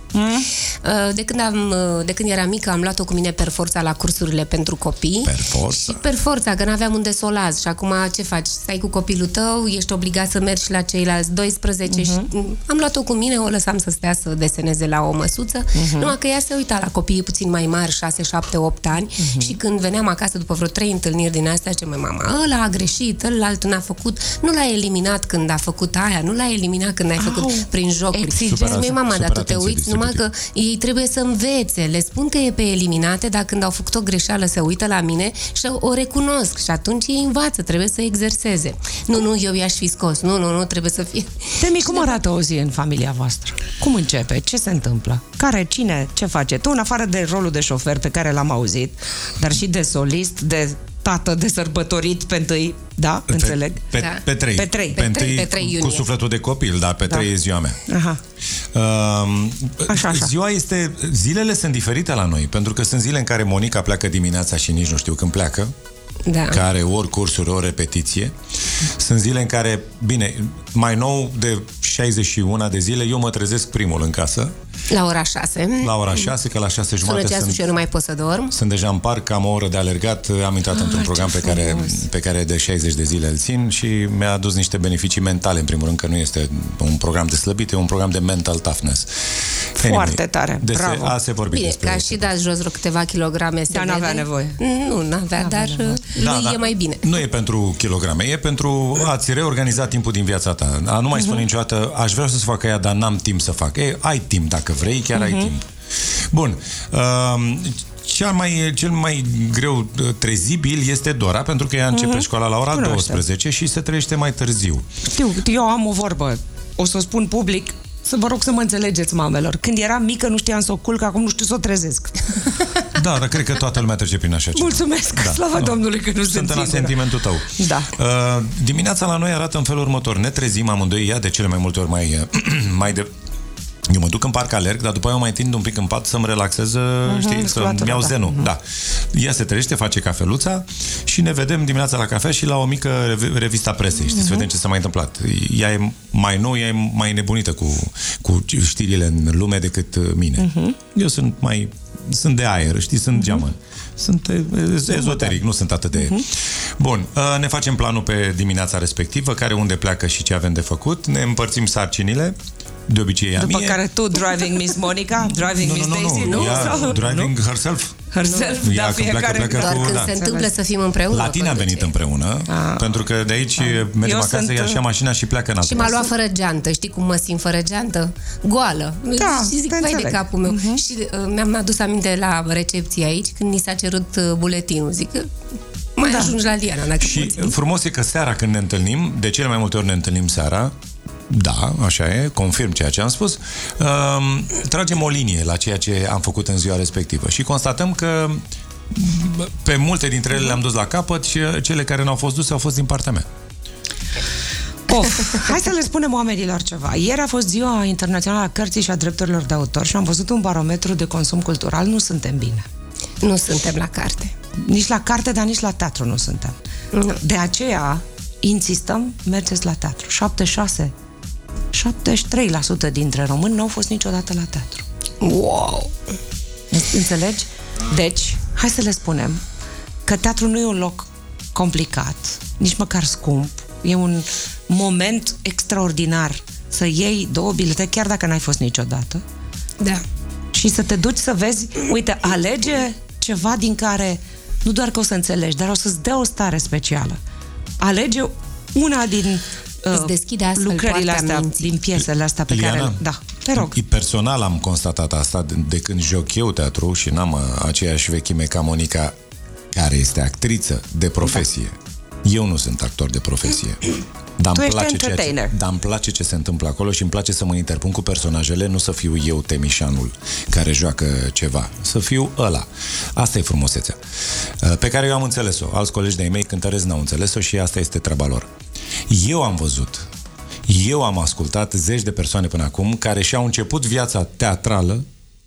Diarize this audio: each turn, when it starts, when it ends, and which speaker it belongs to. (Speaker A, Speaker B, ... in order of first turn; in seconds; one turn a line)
Speaker A: 0.1-0.5
Speaker B: 0.8-42.2
Speaker C: 5.2-6.0
Speaker A: 11.9-12.3
Speaker A: 15.7-16.1
Speaker A: 19.2-19.6
Speaker A: 27.2-28.7
Speaker C: 28.4-30.2
Speaker A: 41.6-53.8
Speaker C: 53.3-57.8
Speaker B: 54.0-54.2
Speaker A: 54.5-55.0
Speaker B: 54.9-56.1
Speaker A: 57.9-58.2
Speaker C: 58.7-65.7
Speaker A: 59.9-60.3
Speaker B: 66.2-66.6
Speaker C: 66.5-68.3
Speaker C: 69.0-74.5
Speaker B: 74.9-76.3
Speaker C: 75.8-77.7
Speaker B: 77.0-78.5
Speaker C: 78.5-89.1
Speaker A: 80.7-82.1
Speaker A: 89.8-91.1
Speaker C: 89.8-92.3
Speaker B: 91.5-97.1
Speaker A: 93.7-94.6
Speaker A: 95.4-96.0
Speaker C: 96.2-105.7
Speaker A: 101.1-101.4
Speaker A: 105.1-105.5
Speaker C: 106.3-114.8
Speaker A: 111.9-113.2
Speaker A: 115.1-122.5
Speaker C: 122.9-133.1
Speaker A: 124.5-127.9
Speaker C: 133.9-138.6
Speaker A: 137.1-138.5
Speaker C: 139.1-156.3
Speaker A: 144.1-144.5
Speaker A: 150.4-150.8
Speaker A: 153.2-153.4
Speaker A: 154.9-155.4
Speaker A: 155.9-156.2
Speaker C: 156.8-162.3
Speaker C: 162.9-163.8
Speaker A: 163.4-167.3
Speaker C: 165.4-168.0
Speaker B: 166.2-166.8
Speaker A: 168.1-170.5
Speaker B: 168.2-168.6
Speaker C: 168.6-170.1
Speaker B: 169.5-171.9
Speaker C: 171.1-176.1
Speaker A: 172.5-173.0
Speaker A: 173.6-174.8
Speaker B: 175.6-185.3
Speaker A: 179.2-180.8
Speaker B: 185.9-187.6
Speaker A: 186.0-186.3
Speaker C: 187.0-190.7
Speaker C: 191.3-203.2
Speaker A: 204.9-212.6
Speaker B: 213.2-214.3
Speaker A: 214.6-216.5
Speaker B: 216.9-217.2
Speaker A: 217.2-220.9
Speaker A: 221.7-224.8
Speaker B: 225.2-225.9
Speaker A: 226.7-229.4
Speaker A: 230.0-239.2
Speaker A: 240.5-247.2
Speaker A: 247.8-253.7
Speaker B: 249.9-251.7
Speaker C: 252.5-253.0
Speaker C: 253.5-259.1
Speaker C: 259.7-263.8
Speaker C: 264.4-274.0
Speaker A: 264.5-265.5
Speaker C: 274.6-278.5
Speaker C: 279.1-280.1
Speaker C: 280.6-285.0